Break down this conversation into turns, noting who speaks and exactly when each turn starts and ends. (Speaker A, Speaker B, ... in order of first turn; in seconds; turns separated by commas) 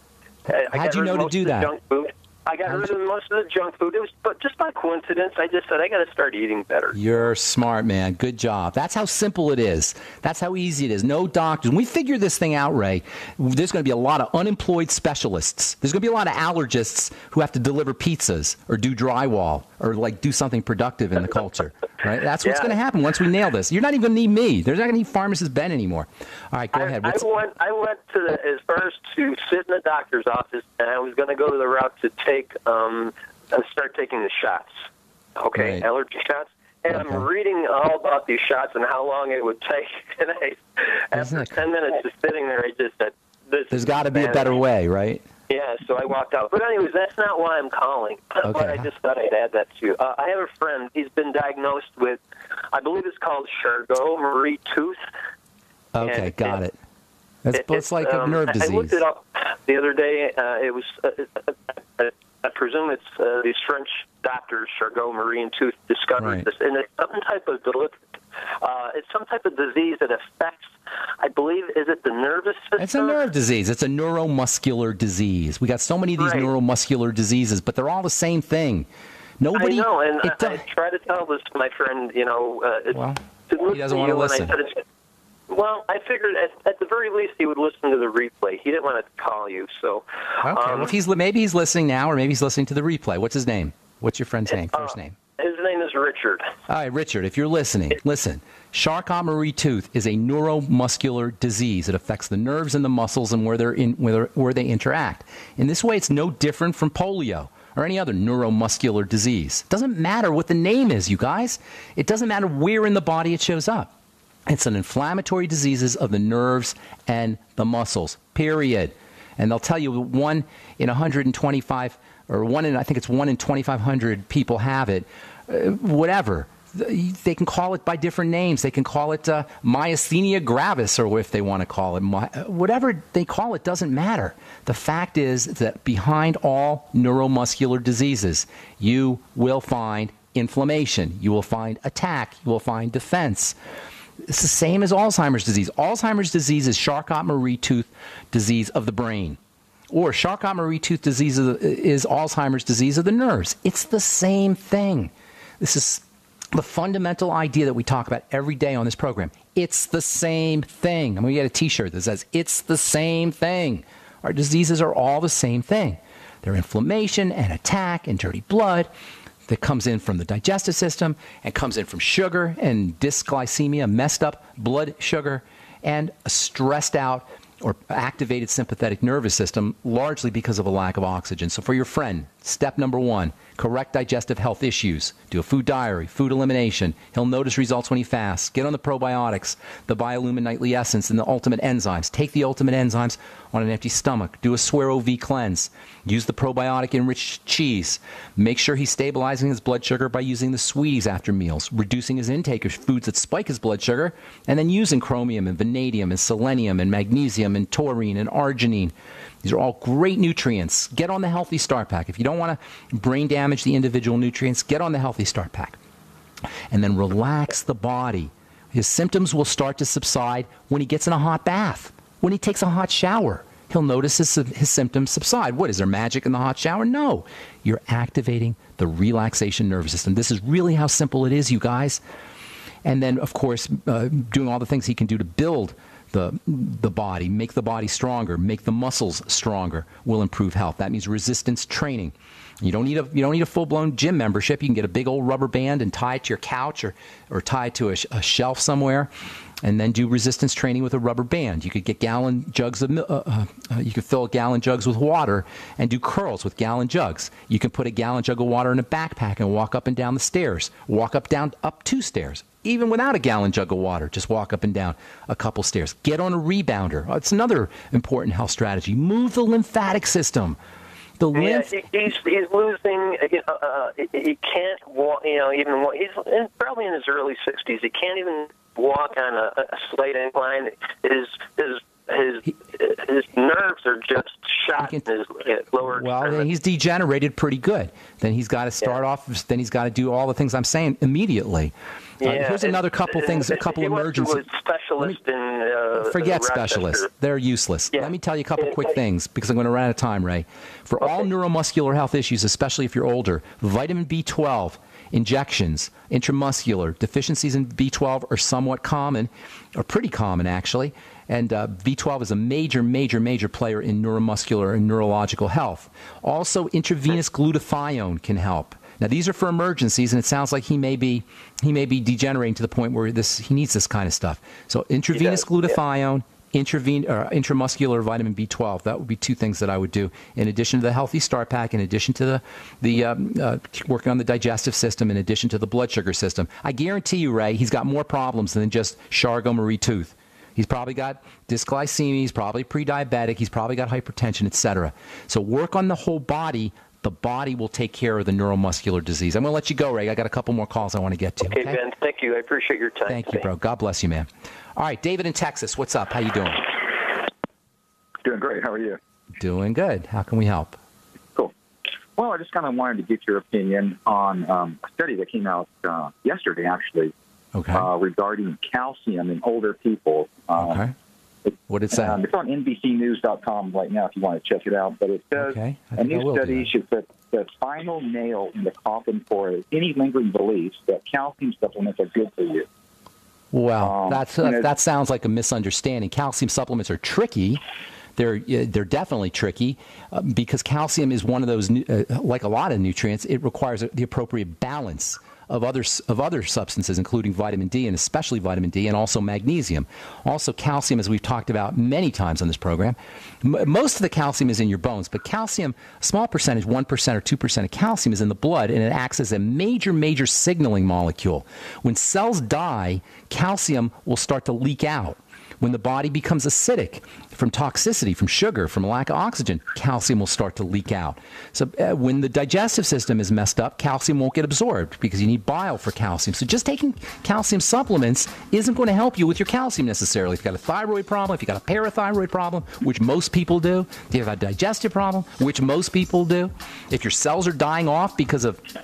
Speaker A: 0.5-7.0, Speaker B: 0.7-1.7, Speaker B: 2.6-2.9, Speaker B: 6.9-27.3, Speaker A: 22.4-22.8, Speaker A: 26.7-34.7, Speaker A: 35.4-44.6, Speaker B: 35.5-35.8, Speaker B: 36.9-37.3, Speaker B: 41.1-41.6, Speaker B: 43.7-45.2, Speaker A: 45.5-52.2, Speaker B: 48.4-48.9, Speaker A: 52.7-55.0, Speaker B: 55.9-56.7, Speaker A: 56.0-56.6, Speaker B: 57.4-59.0, Speaker A: 57.5-68.0, Speaker B: 66.2-66.5, Speaker A: 68.6-70.7, Speaker A: 71.2-73.3, Speaker B: 72.8-78.9, Speaker A: 76.2-76.5, Speaker B: 79.4-80.6, Speaker A: 79.5-84.8, Speaker B: 82.9-84.6, Speaker A: 85.5-90.9, Speaker B: 90.4-95.2, Speaker A: 94.5-96.5, Speaker B: 96.7-113.9, Speaker B: 114.5-143.6, Speaker B: 144.3-149.4, Speaker B: 149.9-168.9, Speaker B: 169.5-215.8, Speaker B: 216.7-232.0, Speaker B: 232.8-249.1, Speaker B: 249.6-270.6, Speaker B: 271.2-271.7, Speaker A: 271.3-286.5, Speaker B: 284.8-285.1, Speaker B: 285.9-294.4, Speaker A: 292.2-297.1, Speaker B: 296.0-351.8, Speaker A: 297.9-298.9, Speaker A: 325.2-325.7, Speaker A: 351.4-353.5, Speaker B: 353.1-357.0, Speaker C: 358.2-359.0, Speaker B: 359.4-360.8, Speaker C: 362.2-367.1, Speaker B: 367.6-367.9, Speaker C: 367.7-370.8, Speaker B: 370.6-370.9, Speaker C: 371.4-382.7, Speaker B: 371.7-372.2, Speaker B: 375.4-376.7, Speaker B: 383.5-387.6, Speaker C: 383.8-384.7, Speaker B: 388.2-438.6